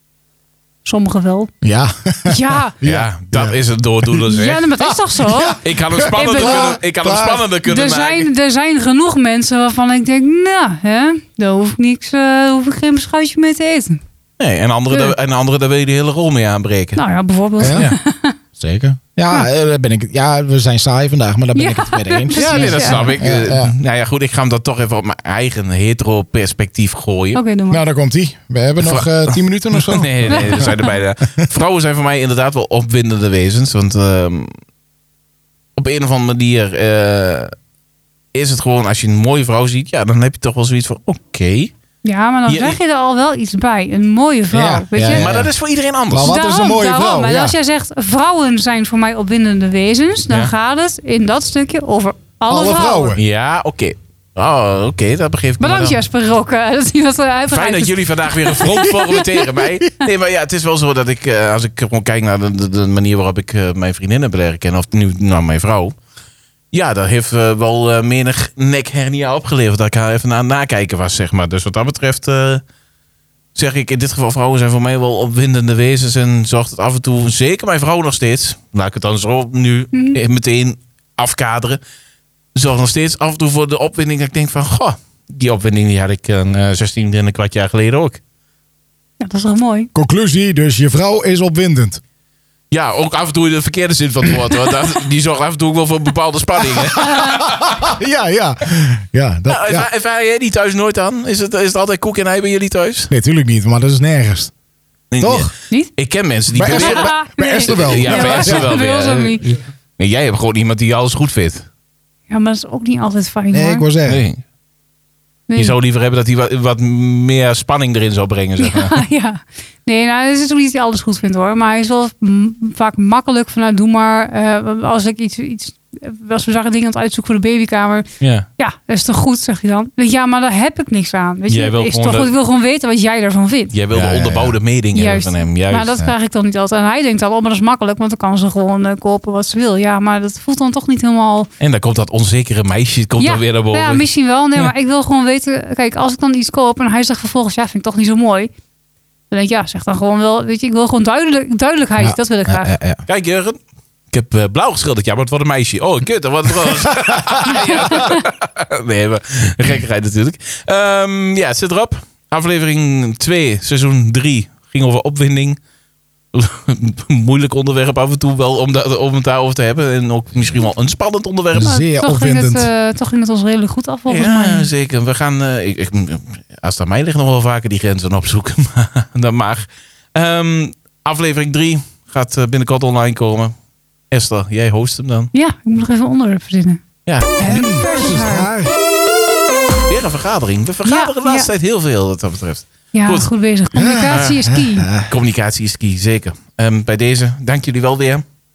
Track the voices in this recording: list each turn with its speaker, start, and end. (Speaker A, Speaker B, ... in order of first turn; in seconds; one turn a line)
Speaker A: 0.8-1.5
Speaker B: 1.6-3.5
Speaker A: 2.3-2.7
Speaker C: 2.8-4.7
Speaker A: 4.3-6.8
Speaker B: 4.8-7.4
Speaker C: 5.6-8.3
Speaker A: 7.7-14.0
Speaker C: 14.4-17.0
Speaker A: 14.9-15.1
Speaker A: 16.9-18.4
Speaker B: 17.6-17.9
Speaker C: 17.7-18.0
Speaker B: 18.6-23.7
Speaker A: 21.5-23.2
Speaker C: 22.4-27.4
Speaker A: 27.3-27.8
Speaker B: 27.7-30.7
Speaker C: 28.8-34.5
Speaker A: 30.3-30.9
Speaker C: 35.8-37.5
Speaker C: 38.3-41.7
Speaker A: 42.0-45.3
Speaker C: 42.5-42.8
Speaker B: 44.5-45.5
Speaker C: 45.1-46.3
Speaker B: 46.1-47.5
Speaker A: 46.2-53.2
Speaker B: 52.5-53.2
Speaker C: 53.2-56.0
Speaker A: 55.6-59.1
Speaker C: 57.5-65.9
Speaker C: 66.7-72.6
Speaker C: 73.5-81.8
Speaker A: 79.9-80.2
Speaker C: 82.5-88.2
Speaker A: 89.2-89.9
Speaker B: 89.9-92.0
Speaker C: 92.7-97.6
Speaker B: 96.7-99.9
Speaker C: 99.5-103.1
Speaker B: 103.1-104.5
Speaker C: 105.1-111.7
Speaker B: 105.2-105.5
Speaker B: 106.5-108.7
Speaker A: 106.7-109.6
Speaker A: 112.3-113.8
Speaker B: 113.5-114.2
Speaker C: 114.0-114.4
Speaker A: 115.5-115.7
Speaker C: 115.5-119.0
Speaker A: 118.6-128.1
Speaker C: 128.2-128.5
Speaker A: 128.6-133.7
Speaker C: 131.5-132.3
Speaker C: 133.7-136.1
Speaker B: 133.9-134.6
Speaker A: 134.9-141.5
Speaker C: 141.6-144.1
Speaker A: 143.2-148.5
Speaker A: 149.3-152.7
Speaker B: 152.0-153.0
Speaker C: 153.1-153.6
Speaker C: 154.1-165.6
Speaker A: 157.9-158.2
Speaker C: 166.3-171.7
Speaker B: 171.5-172.7
Speaker A: 171.6-174.7
Speaker C: 174.1-183.5
Speaker C: 184.1-185.3
Speaker A: 185.3-186.8
Speaker C: 187.1-187.6
Speaker A: 187.4-188.5
Speaker B: 187.4-188.7
Speaker C: 189.9-193.3
Speaker A: 190.8-191.5
Speaker A: 192.9-194.9
Speaker B: 193.7-195.1
Speaker C: 194.1-194.5
Speaker C: 195.0-198.2